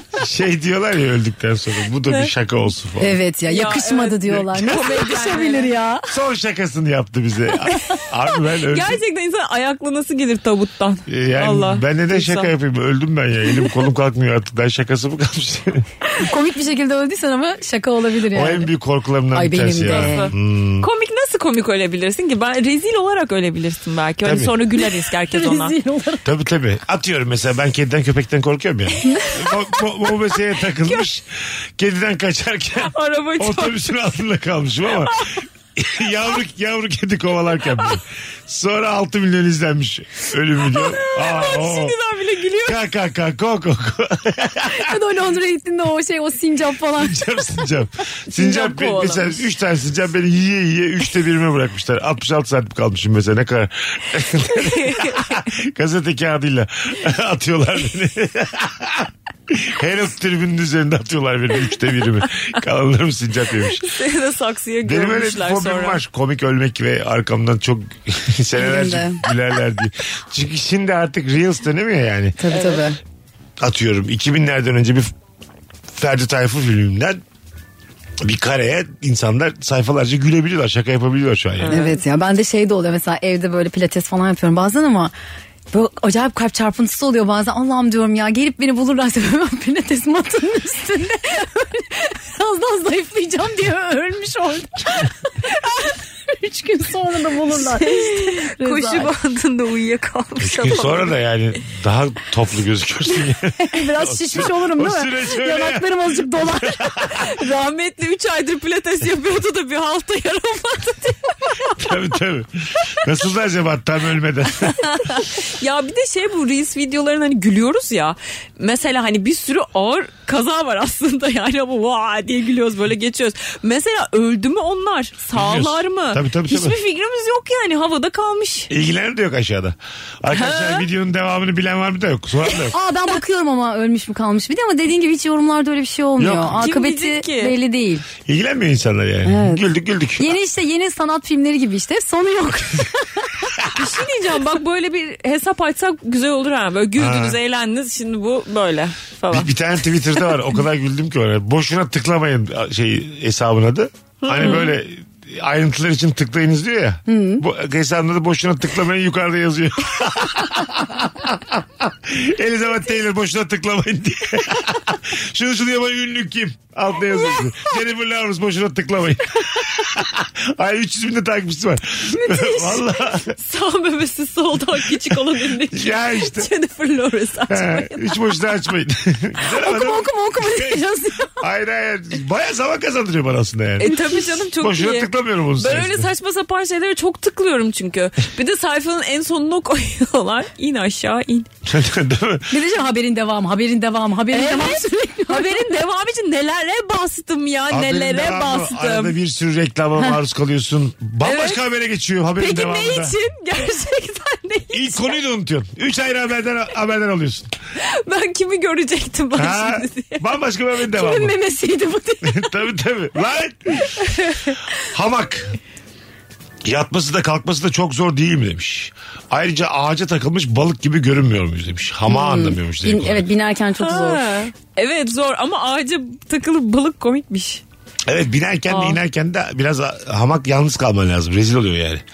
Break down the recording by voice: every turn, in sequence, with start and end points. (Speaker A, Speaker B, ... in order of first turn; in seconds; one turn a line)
Speaker A: 0.2-3.2
Speaker B: 3.0-6.1
Speaker C: 3.5-5.7
Speaker A: 6.1-9.0
Speaker C: 8.7-12.5
Speaker A: 11.1-15.9
Speaker B: 16.2-18.7
Speaker A: 18.3-20.9
Speaker B: 19.3-20.3
Speaker C: 19.9-25.8
Speaker A: 24.2-24.6
Speaker B: 25.3-26.2
Speaker A: 26.2-42.0
Speaker C: 32.8-34.0
Speaker C: 40.6-42.8
Speaker A: 42.6-45.0
Speaker B: 44.7-47.4
Speaker A: 47.0-63.9
Speaker C: 48.3-49.4
Speaker C: 54.5-55.4
Speaker C: 63.7-66.0
Speaker A: 64.8-72.4
Speaker B: 68.6-69.2
Speaker B: 72.4-73.0
Speaker A: 73.6-75.1
Speaker A: 75.9-77.2
Speaker A: 78.2-81.8
Speaker C: 81.6-82.0
Speaker B: 81.7-85.1
Speaker B: 85.7-99.1
Speaker C: 97.6-101.2
Speaker A: 100.4-107.2
Speaker B: 103.6-106.9
Speaker C: 107.1-111.7
Speaker A: 111.7-114.9
Speaker C: 114.8-128.7
Speaker A: 125.3-126.8
Speaker A: 128.7-132.8
Speaker C: 130.3-130.9
Speaker B: 132.7-138.1
Speaker A: 136.2-136.6
Speaker C: 136.6-137.6
Speaker A: 138.2-140.4
Speaker B: 139.2-139.6
Speaker B: 140.2-143.4
Speaker C: 143.7-150.2
Speaker A: 147.0-147.4
Speaker A: 149.3-173.3
Speaker C: 154.2-154.8
Speaker B: 157.1-157.4
Speaker B: 172.3-172.8
Speaker C: 173.3-178.2
Speaker A: 175.7-176.5
Speaker A: 177.5-183.9
Speaker B: 179.5-181.4
Speaker C: 183.8-191.5
Speaker B: 183.9-184.2
Speaker A: 184.6-186.1
Speaker A: 191.7-192.6
Speaker B: 192.5-195.8
Speaker C: 194.3-199.2
Speaker A: 197.7-203.2
Speaker C: 201.2-201.6
Speaker C: 202.4-205.2
Speaker A: 204.7-207.5
Speaker C: 207.8-210.3
Speaker A: 209.3-211.4
Speaker B: 210.9-212.5
Speaker A: 212.2-214.0
Speaker C: 214.1-214.5
Speaker A: 214.9-215.6
Speaker A: 216.7-223.3
Speaker B: 222.1-224.2
Speaker C: 223.8-227.6
Speaker A: 228.1-232.0
Speaker C: 228.7-229.0